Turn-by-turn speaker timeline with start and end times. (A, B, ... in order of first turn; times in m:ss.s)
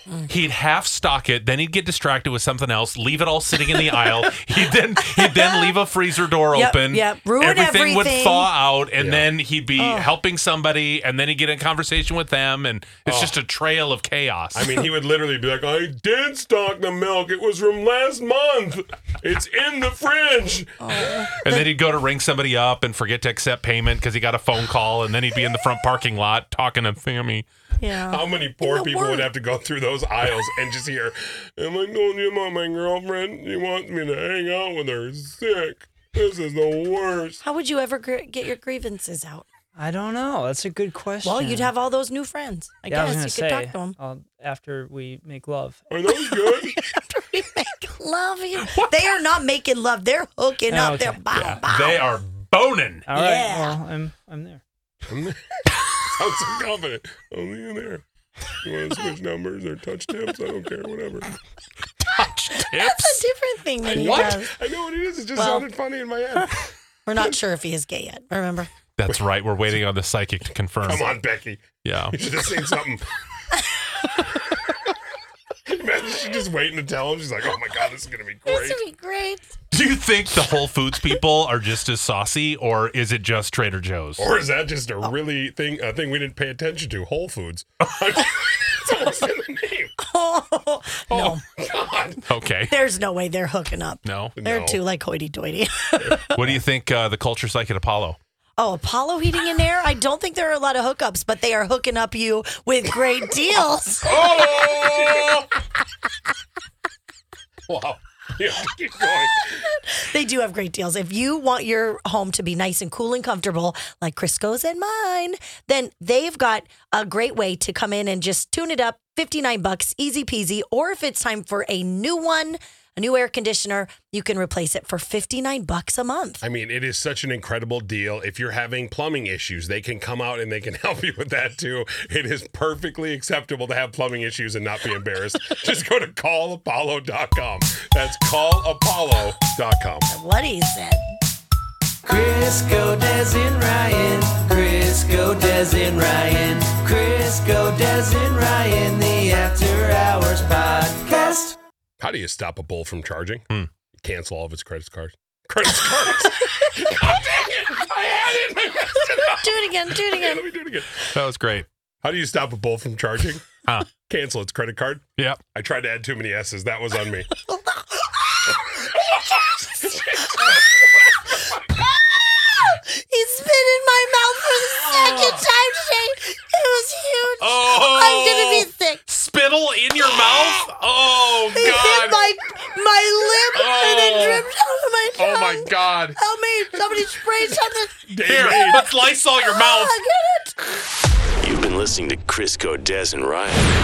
0:00.3-0:14.7 A
0:03.7-0:04.4 B
0:05.0-0:05.8 B
0:06.5-0:08.5 B
0:09.0-0:09.3 C
0:09.8-0:10.1 B
0:13.1-0:13.3 C
0:14.6-0:21.3 C
0:20.8-0:21.7 B
0:21.4-0:27.5 A
0:27.8-0:29.3 B
0:28.1-0:37.4 C
0:37.4-0:39.5 B
0:39.8-0:41.7 D
0:41.2-0:44.0 B
0:42.9-0:45.8 D
0:45.9-0:46.8 C
0:46.1-0:52.0 B
0:50.7-0:51.3 D
0:51.4-0:53.1 A
0:53.1-0:54.6 D
0:53.1-0:53.8 B
0:55.1-0:55.5 C
0:56.0-0:58.0 C
0:58.6-1:01.3 C
1:02.0-1:03.2 A
1:02.7-1:04.5 B
1:03.8-1:06.6 C
1:03.9-1:04.4 A
1:05.4-1:05.7 B
1:07.1-1:08.7 B
1:09.0-1:11.1 A
1:10.8-1:13.0 C
1:11.8-1:12.2 A
1:15.7-1:18.8 C
1:18.5-1:19.6 B
1:19.7-1:24.3 A
1:24.2-1:30.0 C
1:30.0-1:31.4 B
1:31.1-1:32.2 C
1:32.2-1:32.8 A
1:32.7-1:36.4 B
1:34.0-1:34.4 A
1:34.4-1:34.8 C
1:36.2-1:38.2 A
1:38.6-1:44.4 B
1:44.0-1:45.5 C
1:47.7-1:49.7 C
1:49.9-2:06.4 B
2:06.4-2:20.1 C
2:20.1-2:21.0 B
2:22.0-2:31.6 E
2:32.0-2:33.5 C
2:34.0-2:41.1 C
2:39.2-2:40.4 B
2:41.1-2:41.7 A
2:42.0-2:43.5 C
2:44.0-2:47.3 C
2:49.1-2:51.2 C
2:52.6-2:59.0 B
2:54.8-2:55.4 A
2:57.4-3:02.3 A
3:00.2-3:00.5 B
3:01.5-3:08.1 B
3:03.5-3:04.5 A
3:05.2-3:06.2 A
3:08.1-3:08.8 C
3:08.2-3:10.0 A
3:09.4-3:10.6 B
3:11.4-3:13.7 F